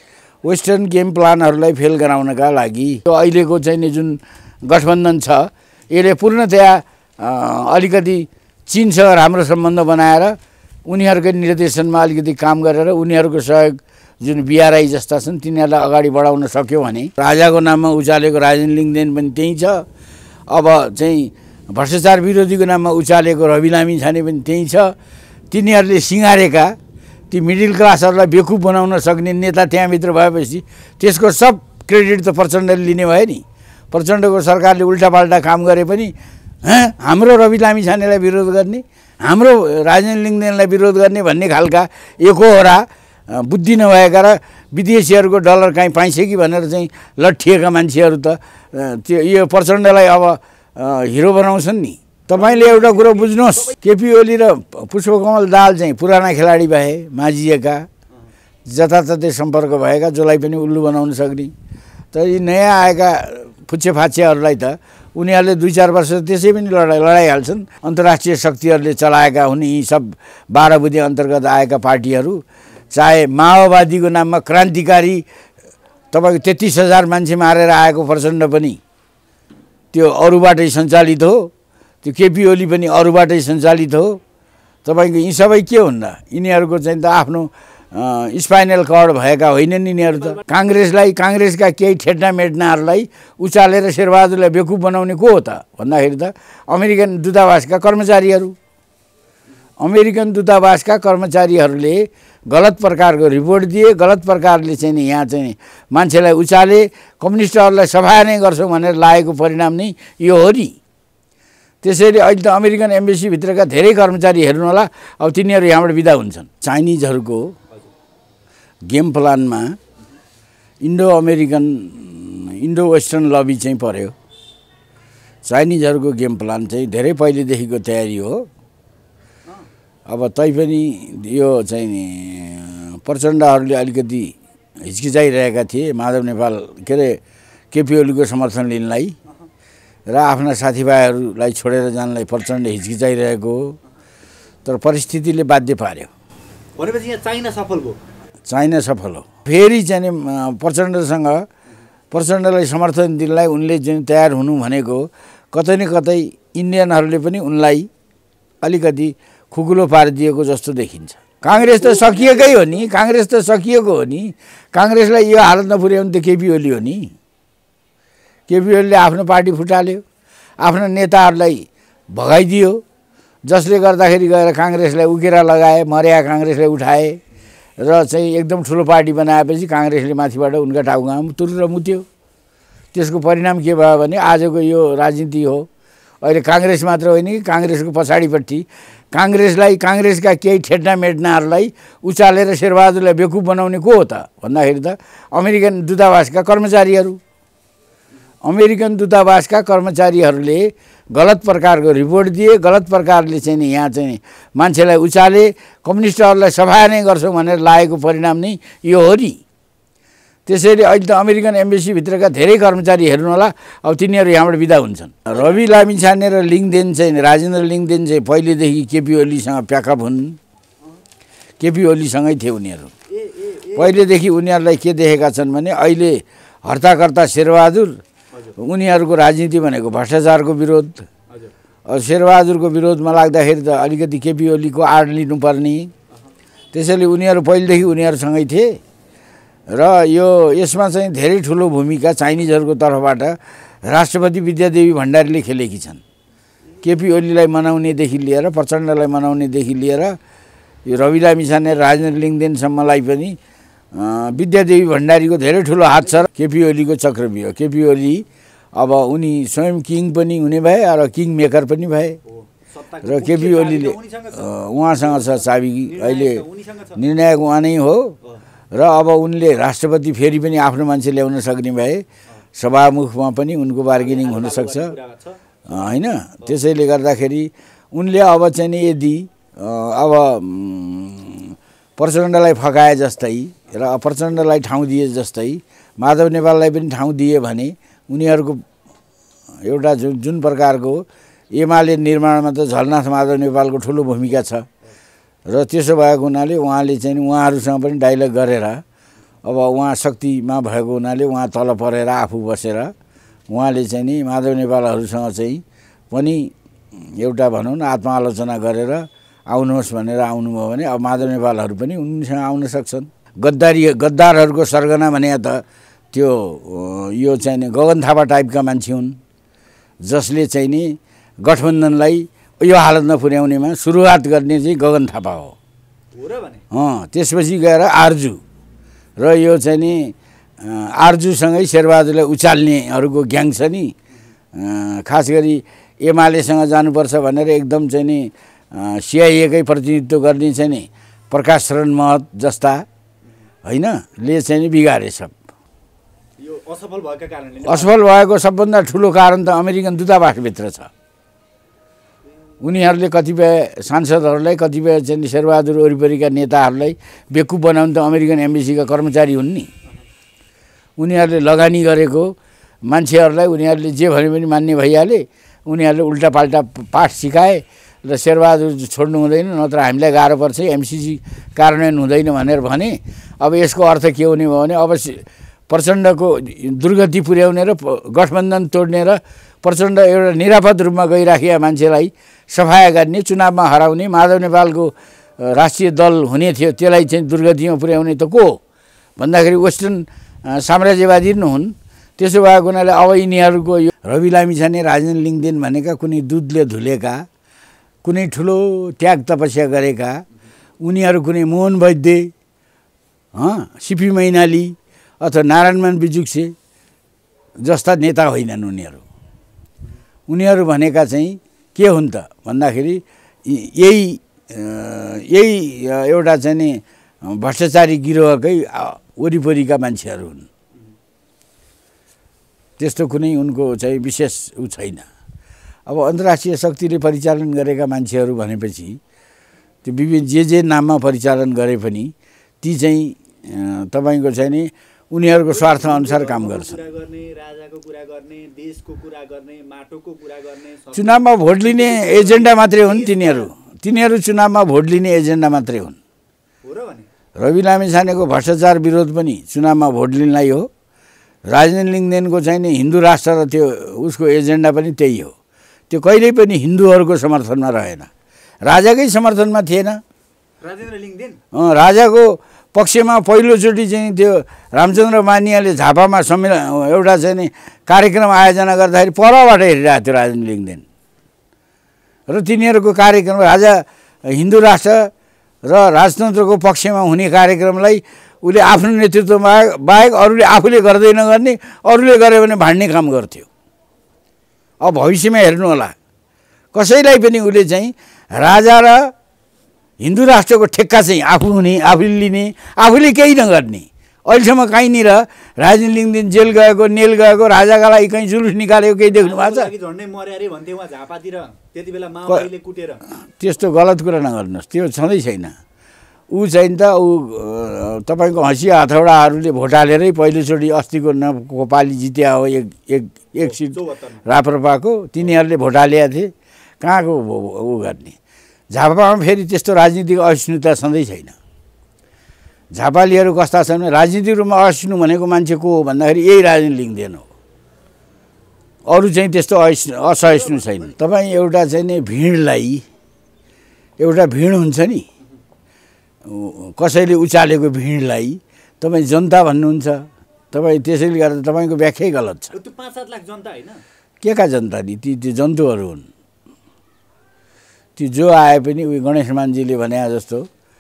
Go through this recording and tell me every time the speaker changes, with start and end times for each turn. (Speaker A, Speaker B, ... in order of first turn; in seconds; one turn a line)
Speaker A: 0.4-19.9
Speaker A: 20.5-24.9
Speaker A: 25.5-26.8
Speaker A: 27.3-57.9
Speaker B: 52.3-53.7
Speaker A: 58.7-61.5
Speaker A: 62.1-72.4
Speaker A: 72.9-75.2
Speaker A: 76.1-78.8
Speaker A: 79.9-81.5
Speaker A: 82.0-84.2
Speaker A: 84.8-98.5
Speaker A: 99.8-110.8
Speaker A: 111.8-117.5
Speaker A: 118.9-119.8
Speaker A: 120.8-124.1
Speaker A: 125.4-128.5
Speaker A: 130.1-137.2
Speaker A: 137.7-139.2
Speaker A: 140.1-143.8
Speaker A: 144.7-146.1
Speaker B: 146.8-148.0
Speaker A: 148.5-151.5
Speaker A: 152.1-157.9
Speaker A: 158.6-167.1
Speaker B: 161.5-162.9
Speaker A: 168.5-170.0
Speaker A: 170.6-172.8
Speaker A: 173.5-177.2
Speaker A: 177.8-182.1
Speaker A: 182.9-185.7
Speaker A: 186.2-197.2
Speaker A: 198.4-209.4
Speaker A: 210.5-220.4
Speaker B: 215.3-215.7
Speaker A: 221.6-222.9
Speaker B: 223.1-224.0
Speaker A: 223.8-228.0
Speaker B: 228.3-228.6
Speaker A: 228.6-231.1
Speaker A: 231.9-235.9
Speaker A: 236.7-238.8
Speaker A: 239.7-246.0
Speaker A: 246.8-250.2
Speaker A: 250.9-253.4
Speaker A: 253.9-262.2
Speaker B: 262.3-267.0
Speaker A: 263.0-266.4
Speaker A: 267.0-268.2
Speaker A: 268.7-274.9
Speaker B: 273.9-275.8
Speaker A: 275.7-288.6
Speaker A: 289.6-294.7
Speaker A: 295.5-298.8
Speaker A: 299.4-302.9
Speaker A: 303.5-319.2
Speaker A: 320.0-325.6
Speaker B: 326.1-326.6
Speaker A: 326.7-328.4
Speaker A: 329.2-333.9
Speaker A: 334.5-342.9
Speaker A: 343.6-345.4
Speaker B: 346.4-348.0
Speaker A: 347.6-350.9
Speaker A: 352.6-359.7
Speaker A: 361.0-388.6
Speaker A: 389.2-397.3
Speaker A: 398.0-400.2
Speaker A: 400.8-402.3
Speaker A: 403.4-406.5
Speaker A: 407.6-409.0
Speaker A: 410.3-420.5
Speaker A: 422.8-425.1
Speaker A: 425.9-429.0
Speaker A: 429.8-436.8
Speaker B: 435.5-443.5
Speaker A: 440.9-446.0
Speaker B: 446.6-447.1
Speaker A: 447.4-450.7
Speaker A: 451.5-455.3
Speaker A: 455.9-458.1
Speaker A: 458.7-460.0
Speaker B: 460.6-461.4
Speaker A: 461.5-470.9
Speaker A: 472.3-475.1
Speaker A: 475.6-483.5
Speaker A: 484.8-485.9
Speaker A: 486.7-489.1
Speaker A: 490.0-499.7
Speaker B: 499.1-503.0
Speaker A: 503.2-505.6
Speaker A: 506.3-518.2
Speaker B: 513.4-514.2
Speaker A: 518.7-521.4
Speaker A: 522.7-527.3
Speaker A: 528.9-532.9
Speaker B: 530.2-531.0
Speaker A: 534.0-535.1
Speaker A: 536.2-542.5
Speaker B: 542.5-543.8
Speaker A: 544.2-546.1
Speaker A: 548.0-550.5